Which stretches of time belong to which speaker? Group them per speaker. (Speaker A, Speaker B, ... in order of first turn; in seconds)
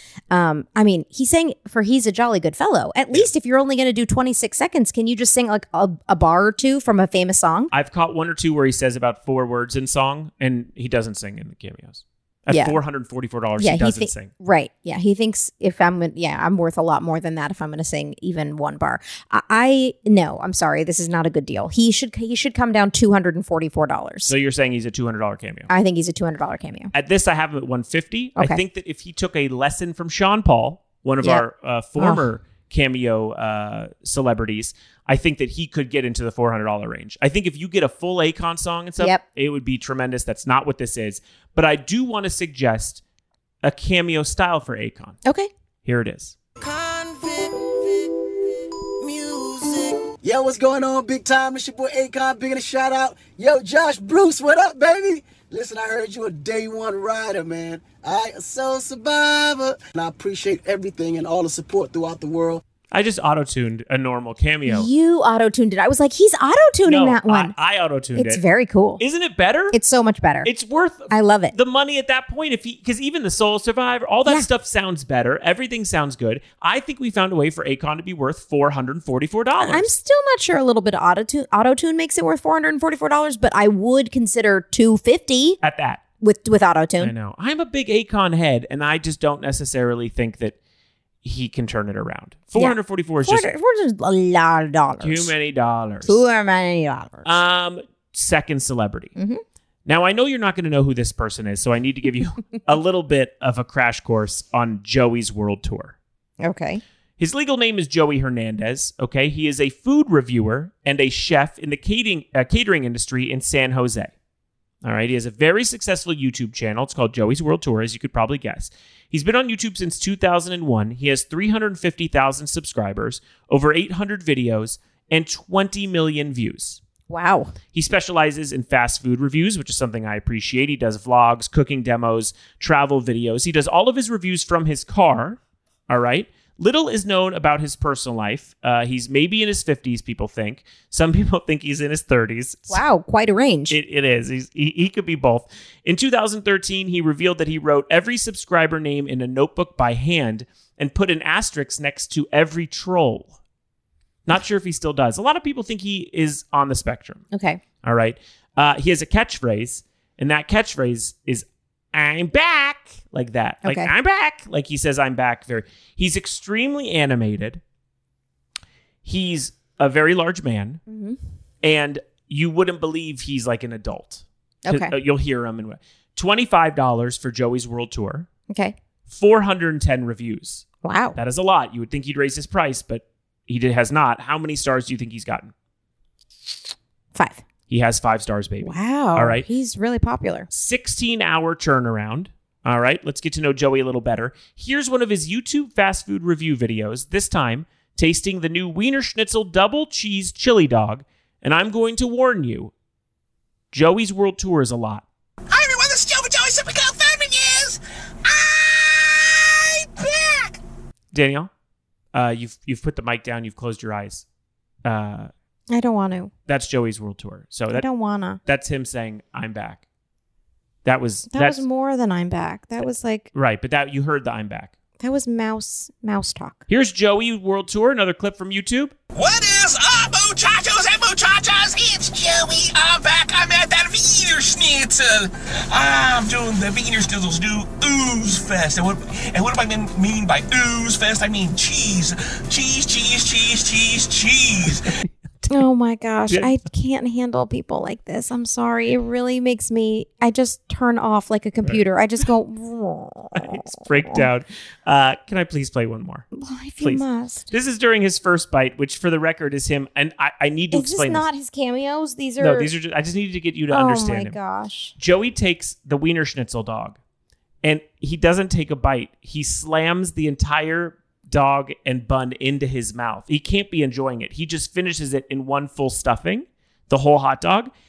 Speaker A: 0.3-7.7, 12.5-12.8, 13.6-24.3, 25.7-26.9, 32.0-32.2, 64.7-67.5, 68.1-69.0, 69.7-70.5, 71.1-71.5, 79.6-85.6, 86.2-87.1, 92.5-95.3, 96.0-97.3, 99.2-99.4, 106.4-106.8, 127.1-127.5, 142.7-143.8, 157.3-157.6, 163.6-163.9, 170.9-171.2, 174.7-174.9, 178.5-178.8, 180.8-181.2, 187.1-187.4, 188.6-190.5, 215.7-216.3, 217.7-218.4, 221.3-223.3, 225.0-226.6, 245.5-254.2, 256.3-257.5, 260.7-262.7, 263.7-264.9
Speaker B: 7.7-14.3, 24.2-25.7, 26.9-43.0, 43.6-45.2, 45.8-46.4, 62.9-64.9, 66.8-68.4, 69.0-69.8, 70.4-79.9, 85.6-86.0, 87.0-90.5, 91.2-93.5, 95.0-96.2, 97.2-99.1, 99.8-106.0, 107.2-114.1, 114.8-126.8, 127.7-142.8, 143.7-153.3, 154.3-157.2, 157.8-167.6, 169.0-170.8, 171.6-178.3, 179.1-185.5, 187.7-189.4, 190.5-202.7, 203.7-205.0, 211.1-211.5, 212.1-214.2, 214.8-215.3, 216.5-217.8, 218.4-219.8, 220.8-221.6, 223.3-224.7, 226.7-228.9, 253.3-256.2, 256.8-261.2, 262.4-264.4, 265.0-267.0, 267.6-277.7
Speaker C: 50.2-62.6
Speaker D: 205.5-210.6, 229.1-244.9